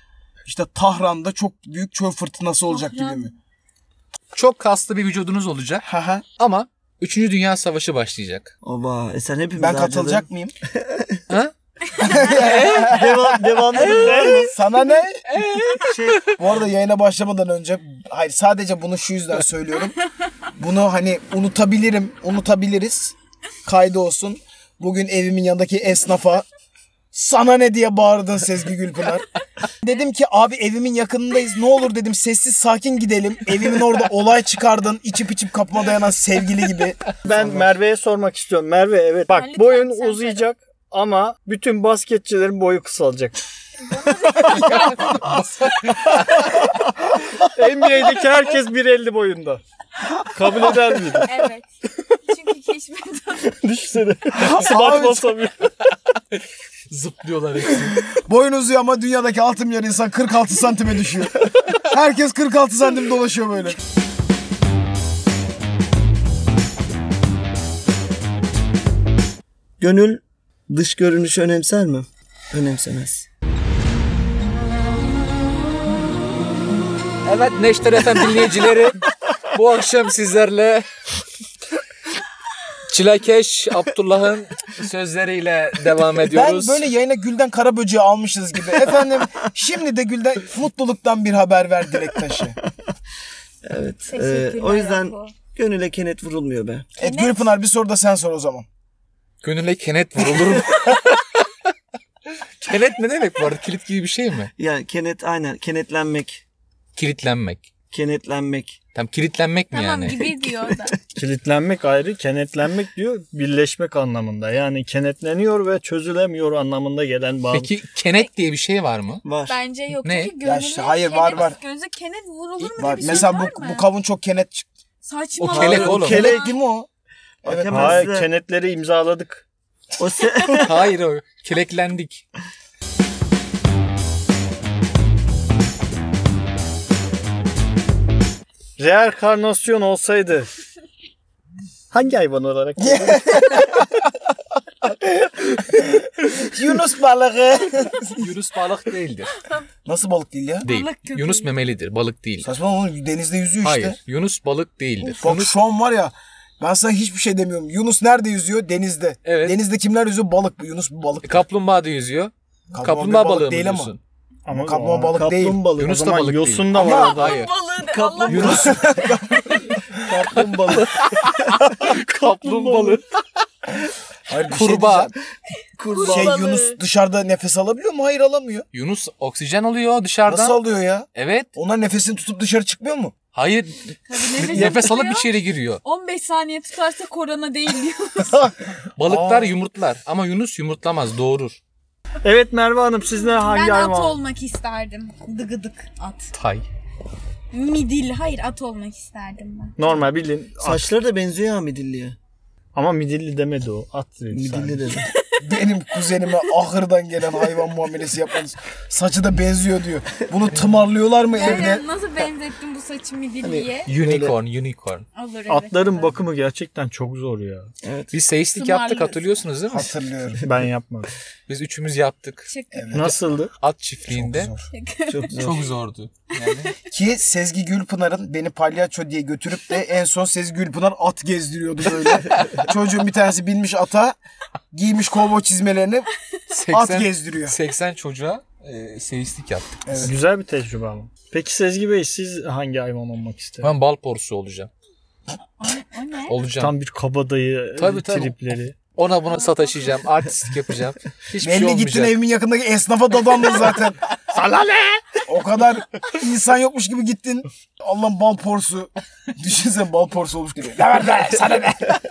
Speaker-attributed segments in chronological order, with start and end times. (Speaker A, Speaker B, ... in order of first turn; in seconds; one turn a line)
Speaker A: 0.4-3.3
Speaker B: 2.7-3.3
Speaker C: 4.3-8.5
Speaker A: 5.8-6.2
Speaker D: 8.6-11.2
Speaker A: 9.6-10.5
Speaker C: 11.3-13.0
Speaker A: 12.0-15.3
Speaker D: 12.4-14.5
Speaker C: 13.7-14.4
Speaker E: 13.8-14.4
Speaker C: 15.2-16.2
Speaker D: 15.8-16.3
Speaker A: 16.4-19.9
Speaker A: 20.6-26.4
Speaker A: 27.1-29.2
Speaker A: 29.8-37.6
Speaker E: 37.2-43.4
Speaker B: 39.3-40.4
Speaker B: 43.8-45.0
Speaker C: 44.4-46.7
Speaker E: 47.5-49.6
Speaker E: 50.2-51.3
Speaker B: 51.2-53.6
Speaker E: 53.5-55.7
Speaker A: 54.3-55.4
Speaker C: 56.9-58.1
Speaker A: 58.1-63.8
Speaker D: 69.8-73.3
Speaker C: 77.2-80.8
Speaker C: 82.9-86.8
Speaker A: 86.3-92.6
Speaker D: 93.6-96.9
Speaker B: 94.1-95.3
Speaker A: 97.0-98.7
Speaker B: 97.0-97.5
Speaker C: 99.4-101.4
Speaker C: 102.6-104.5
Speaker D: 104.6-106.4
Speaker C: 106.9-107.6
Speaker D: 107.9-108.8
Speaker C: 108.9-110.3
Speaker B: 109.7-111.0
Speaker E: 111.1-117.7
Speaker C: 117.5-119.2
Speaker D: 119.2-119.5
Speaker B: 119.5-123.8
Speaker C: 120.0-120.3
Speaker A: 120.4-121.6
Speaker C: 122.6-123.3
Speaker A: 122.8-124.7
Speaker B: 125.0-126.5
Speaker C: 125.4-126.3
Speaker D: 125.5-126.6
Speaker A: 125.9-126.9
Speaker A: 127.4-128.1
Speaker D: 127.4-128.3
Speaker E: 127.7-129.4
Speaker D: 130.0-130.9
Speaker C: 130.5-132.2
Speaker E: 138.8-140.5
Speaker E: 141.9-143.6
Speaker A: 142.8-143.8
Speaker A: 144.8-148.2
Speaker C: 148.2-149.3
Speaker A: 149.8-150.6
Speaker B: 150.6-151.5
Speaker C: 150.6-152.5
Speaker A: 152.4-154.0
Speaker C: 153.6-155.5
Speaker A: 155.0-161.3
Speaker C: 159.2-159.6
Speaker C: 161.2-164.0
Speaker A: 162.7-163.9
Speaker E: 164.4-165.2
Speaker A: 164.5-165.6
Speaker D: 165.1-165.9
Speaker C: 165.7-167.5
Speaker E: 165.8-167.4
Speaker A: 166.7-167.2
Speaker B: 166.8-168.8
Speaker D: 167.9-168.8
Speaker C: 168.3-168.8
Speaker A: 168.3-169.8
Speaker D: 170.0-171.6
Speaker C: 170.7-173.1
Speaker A: 174.3-175.1
Speaker C: 174.5-175.1
Speaker D: 175.8-176.4
Speaker B: 175.9-176.8
Speaker A: 176.0-178.7
Speaker C: 178.7-180.6
Speaker A: 180.2-183.2
Speaker C: 181.1-181.5
Speaker C: 183.3-185.8
Speaker B: 184.1-185.3
Speaker B: 185.8-188.5
Speaker C: 189.0-191.6
Speaker A: 189.1-189.6
Speaker E: 192.2-194.2
Speaker B: 193.4-196.3
Speaker C: 196.3-196.6
Speaker B: 197.5-200.0
Speaker E: 199.8-200.8
Speaker D: 200.6-202.2
Speaker E: 202.7-205.0
Speaker D: 204.3-205.1
Speaker B: 205.0-205.4
Speaker A: 205.4-211.8
Speaker B: 206.0-206.4
Speaker B: 211.3-213.9
Speaker A: 213.4-214.3
Speaker C: 213.8-215.0
Speaker B: 215.1-216.2
Speaker E: 215.5-217.7
Speaker D: 217.8-218.1
Speaker C: 218.1-219.9
Speaker B: 218.5-219.2
Speaker A: 219.7-220.4
Speaker E: 220.4-221.1
Speaker C: 221.5-224.5
Speaker B: 222.5-222.9
Speaker A: 222.7-223.2
Speaker E: 222.9-223.5
Speaker A: 224.1-224.7
Speaker B: 224.7-225.5
Speaker D: 225.1-225.7
Speaker C: 225.4-226.7
Speaker B: 226.3-226.7
Speaker A: 226.9-234.2
Speaker A: 234.7-236.1
Speaker C: 236.5-240.1
Speaker A: 236.7-237.6
Speaker A: 239.8-240.1
Speaker E: 240.0-243.7
Speaker C: 243.6-244.7
Speaker B: 245.6-246.4
Speaker C: 246.2-246.7
Speaker E: 246.6-248.8
Speaker C: 247.8-252.1
Speaker B: 249.3-250.0
Speaker A: 251.4-254.0
Speaker C: 253.7-255.0
Speaker A: 255.2-262.0